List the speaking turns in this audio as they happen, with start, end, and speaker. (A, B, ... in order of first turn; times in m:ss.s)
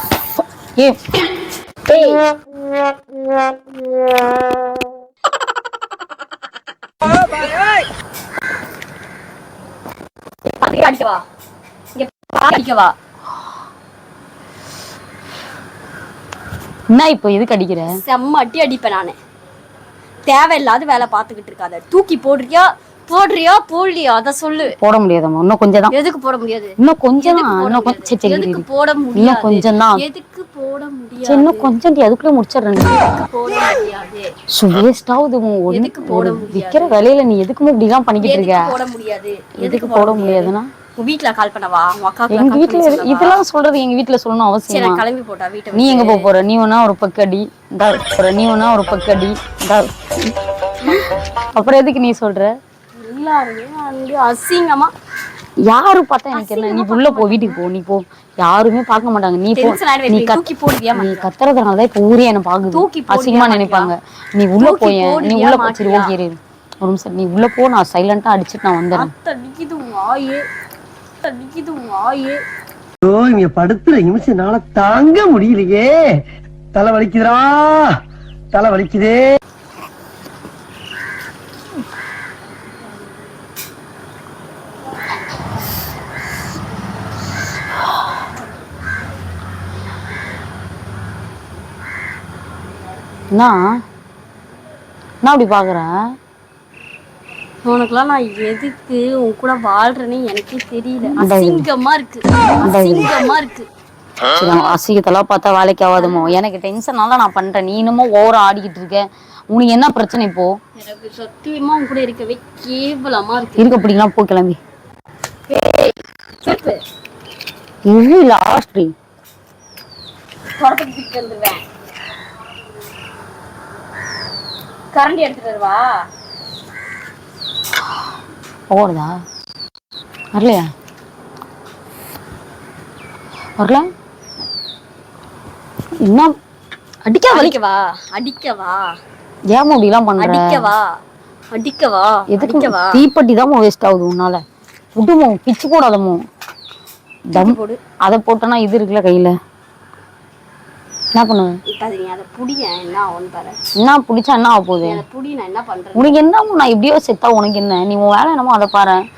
0:01.9-0:02.2 A
0:10.5-0:11.2 A
0:12.0-0:12.9 A
0:16.9-0:17.9 B
0:18.0-0:19.2 A
0:20.3-0:24.8 A
0:24.8-0:25.9 B
0:25.9-0:31.7 A
0:26.8-0:30.0 B
0:31.2-0:33.0 B
0:33.0-0:34.3 A
0:34.5-0:38.7 B
0:35.7-0:37.0 A
0:38.2-0:43.4 A
0:39.6-0:40.7 B
0:42.3-0:45.0 B
0:44.7-0:46.3 A
0:45.7-0:51.0 B
0:51.5-0:52.5 B
0:53.0-0:54.9 A
0:55.7-1:09.1 B
0:56.3-0:57.6 A
0:59.6-1:01.3 A
1:02.7-1:03.9 A
1:04.6-1:06.2 A
1:08.9-1:10.4 A
1:11.2-1:12.4 A
1:13.0-1:15.9 C
1:16.7-1:18.0 C
1:18.5-1:19.2 C
1:33.3-1:33.6 B
1:35.2-1:35.9 B
1:37.6-1:43.7 A
1:41.2-1:41.7 B
1:42.6-1:43.1 B
1:44.4-1:50.5 B
1:46.0-1:46.4 A
1:50.8-1:53.7 A
1:53.6-1:54.6 B
1:55.5-1:56.8 A
1:57.9-1:58.9 B
2:00.6-2:01.6 A
2:04.9-2:05.9 A
2:08.7-2:09.1 B
2:10.4-2:10.7 B
2:13.6-2:13.8 B
2:16.0-2:16.3 B
2:17.1-2:17.6 B
2:17.3-2:18.9 A
2:19.5-2:20.7 B
2:20.2-2:20.9 A
2:21.5-2:23.0 A
2:22.4-2:24.4 B
2:25.0-2:26.2 B
2:27.3-2:29.4 B
2:27.4-2:27.8 A
2:31.2-2:31.6 B
2:31.7-2:33.6 A
2:33.8-2:35.0 B
2:34.8-2:36.2 A
2:36.0-2:39.0 B